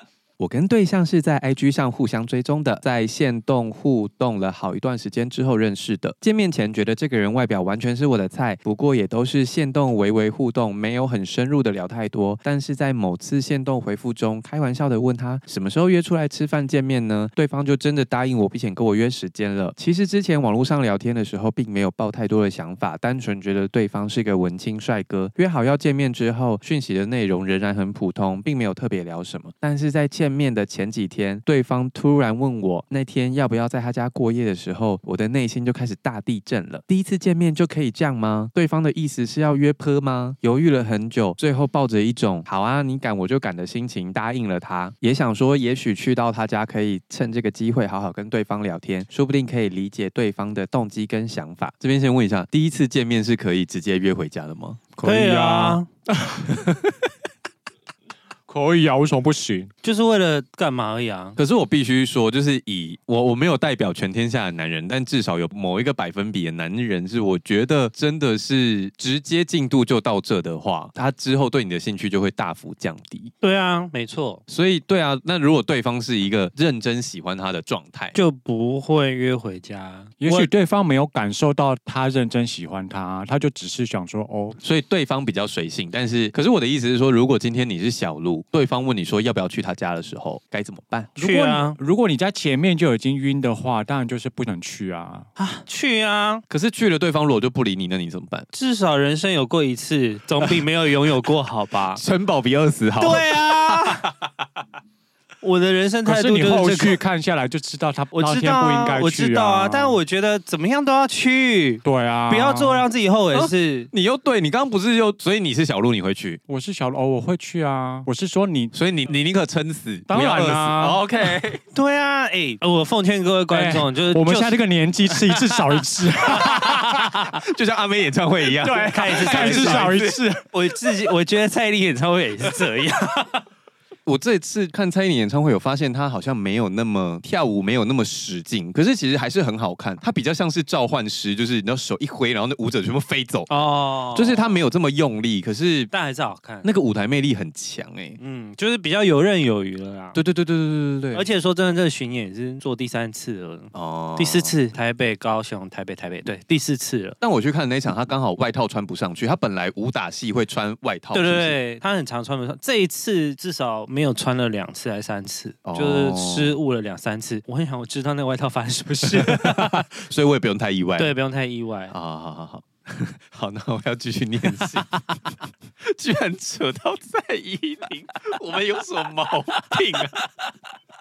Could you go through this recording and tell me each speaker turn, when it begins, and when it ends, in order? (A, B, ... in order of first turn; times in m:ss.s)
0:00.4-0:54.8 A
0:54.9-0:56.9 B
0:55.0-0:55.9 C
0:58.5-0:59.7 B
0:59.8-1:01.4 C
1:01.4-1:13.3 A
1:13.4-1:14.4 C
1:14.5-1:18.1 A
1:18.1-1:20.5 C
1:20.2-1:24.6 B
1:24.6-1:31.1 A
1:31.2-1:35.3 B
1:31.2-1:31.8 C
1:35.4-1:36.4 C
1:36.5-1:38.5 A
1:38.5-1:42.0 C
1:41.9-1:44.3 A
1:43.0-1:44.1 C
1:45.4-1:47.0 C
1:46.0-1:50.0 B
1:48.1-1:53.9 C
1:51.8-1:52.8 B
1:53.3-1:56.4 A
1:56.5-1:58.7 B
1:58.7-2:01.6 A
2:00.1-2:01.0 B
2:01.7-2:04.6 C
2:03.5-2:07.0 B
2:05.1-2:07.3 C
2:07.4-2:10.2 A
2:08.6-2:10.4 B
2:08.7-2:13.4 C
2:14.0-2:23.5 A
2:23.5-2:24.6 C
2:24.1-2:25.9 A
2:25.9-2:26.7 C
2:26.6-2:28.2 A
2:28.2-2:30.2 C
2:30.1-2:31.2 A
2:31.1-2:37.2 C
2:33.7-2:34.5 A
2:37.2-2:41.6 A
2:41.1-2:49.9 C
2:45.6-2:46.5 A
2:49.0-2:51.1 A
2:51.0-2:51.9 C
2:51.9-2:55.3 A
2:55.8-3:00.5 A